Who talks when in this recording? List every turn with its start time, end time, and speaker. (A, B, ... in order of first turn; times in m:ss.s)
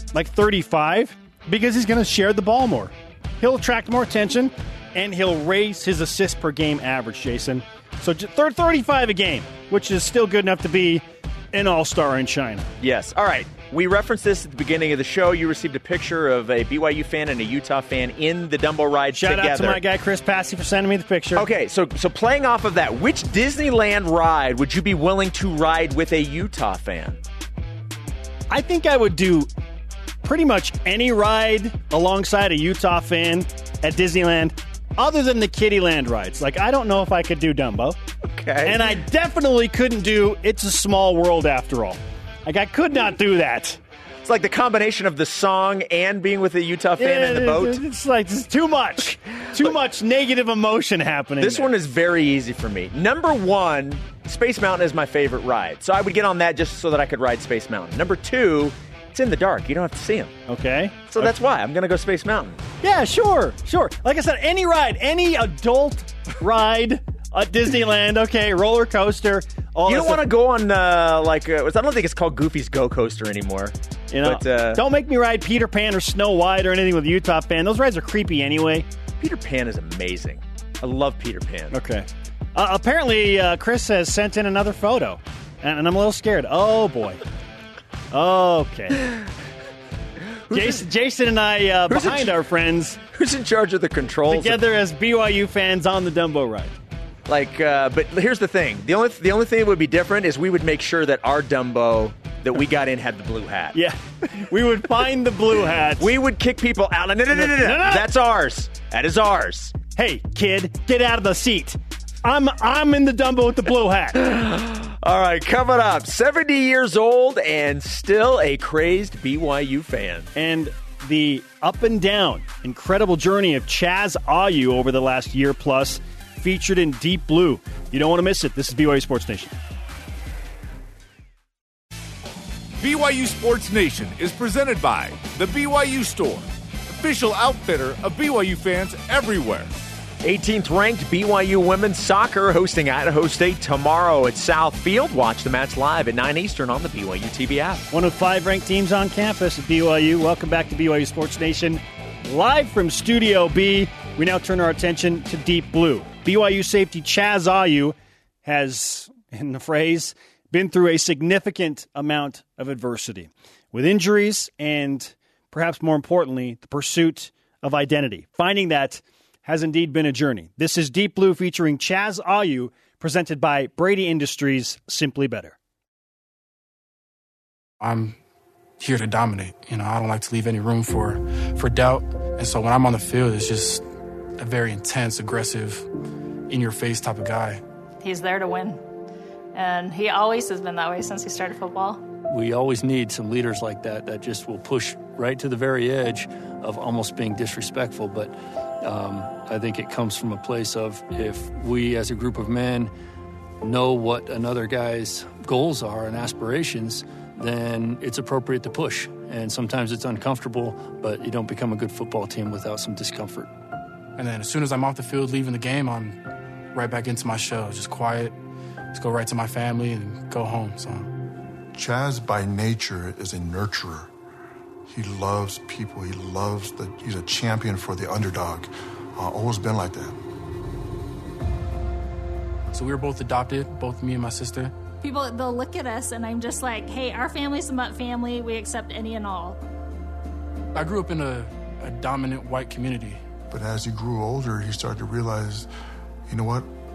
0:00.1-0:12.7 A
0:12.8-0:19.8 B
0:19.1-0:21.4 A
0:21.3-0:27.2 B
0:28.5-0:29.5 A
0:30.2-0:38.0 A
0:38.2-0:38.9 B
0:38.6-0:43.8 A
0:44.2-0:47.8 B
0:47.0-0:51.7 A
0:51.4-1:00.3 B
1:00.5-1:01.3 A
1:01.1-1:02.6 B
1:02.8-1:10.2 A
1:09.9-1:14.8 B
1:14.1-1:18.9 A
1:19.2-1:21.7 B
1:21.7-1:27.2 A
1:28.1-1:29.1 A
1:30.4-1:30.8 B
1:30.5-1:33.0 A
1:31.9-1:32.3 B
1:33.1-1:34.6 B
1:34.3-1:36.7 A
1:37.3-1:43.8 B
1:43.7-1:46.1 A
1:46.0-1:49.7 B
1:47.3-1:48.0 A
1:49.9-1:54.3 A
1:54.2-2:00.3 B
2:00.3-2:09.5 A
2:12.8-2:19.7 C
2:20.2-2:27.9 B
2:27.9-2:55.6 A
2:57.8-2:58.2 D
2:58.8-3:03.8 D
3:04.4-3:05.9 D
3:06.5-3:07.6 D
3:08.0-3:08.8 E
3:09.5-3:12.0 E
3:12.3-3:22.9 F
3:23.6-3:33.5 F
3:34.2-3:36.2 D
3:36.7-3:38.3 D
3:38.9-3:41.1 D
3:41.7-3:44.1 G
3:44.9-3:50.2 G
3:52.7-3:54.7 D
3:55.0-3:59.6 E
4:00.7-4:03.2 D
4:03.5-4:05.7 G
4:06.3-4:06.7 G